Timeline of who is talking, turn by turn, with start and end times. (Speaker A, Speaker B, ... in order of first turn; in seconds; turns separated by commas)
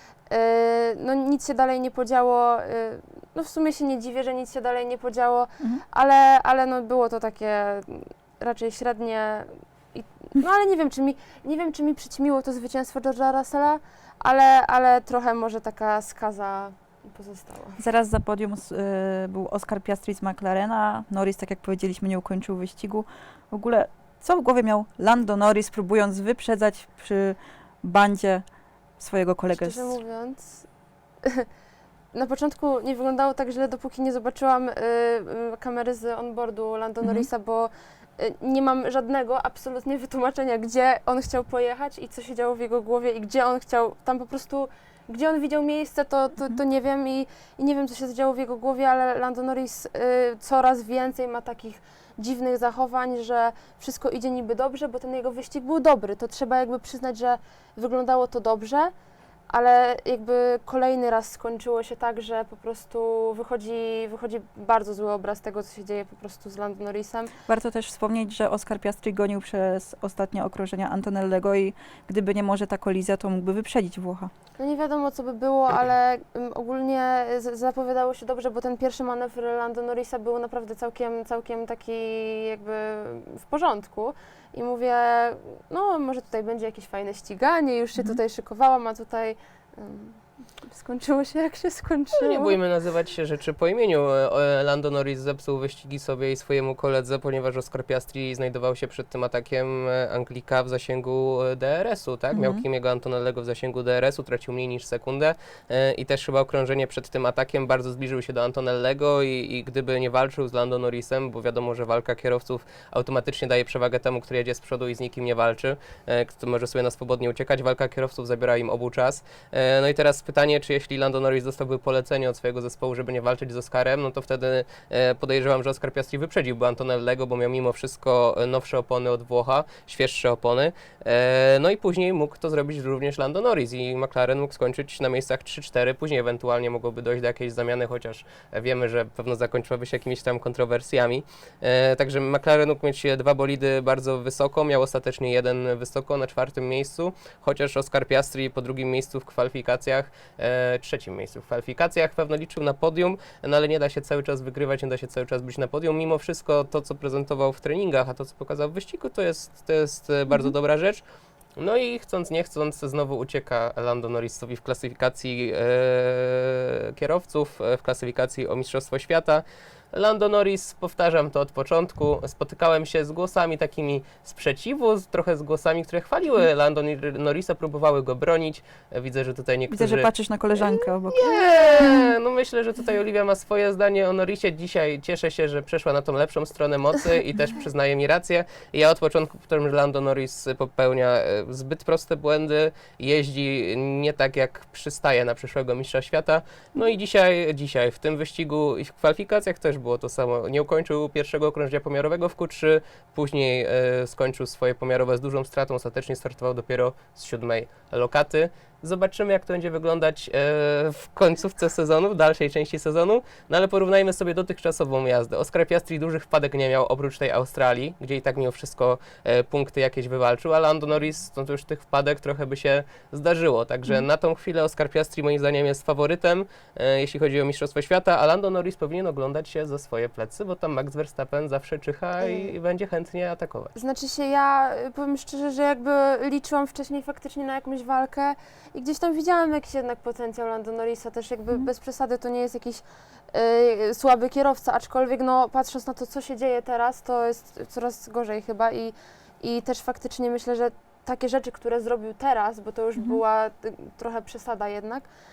Speaker A: 0.3-17.8, Speaker B: 17.8-28.4, Speaker B: 29.0-29.9, Speaker A: 29.5-30.7, Speaker A: 32.1-58.9, Speaker A: 59.5-67.3, Speaker B: 67.5-74.3, Speaker A: 74.6-92.6, Speaker C: 92.2-161.0, Speaker B: 102.3-102.6, Speaker C: 161.6-180.1, Speaker B: 179.7-181.2, Speaker C: 180.6-233.7, Speaker A: 232.2-232.5, Speaker A: 233.8-255.1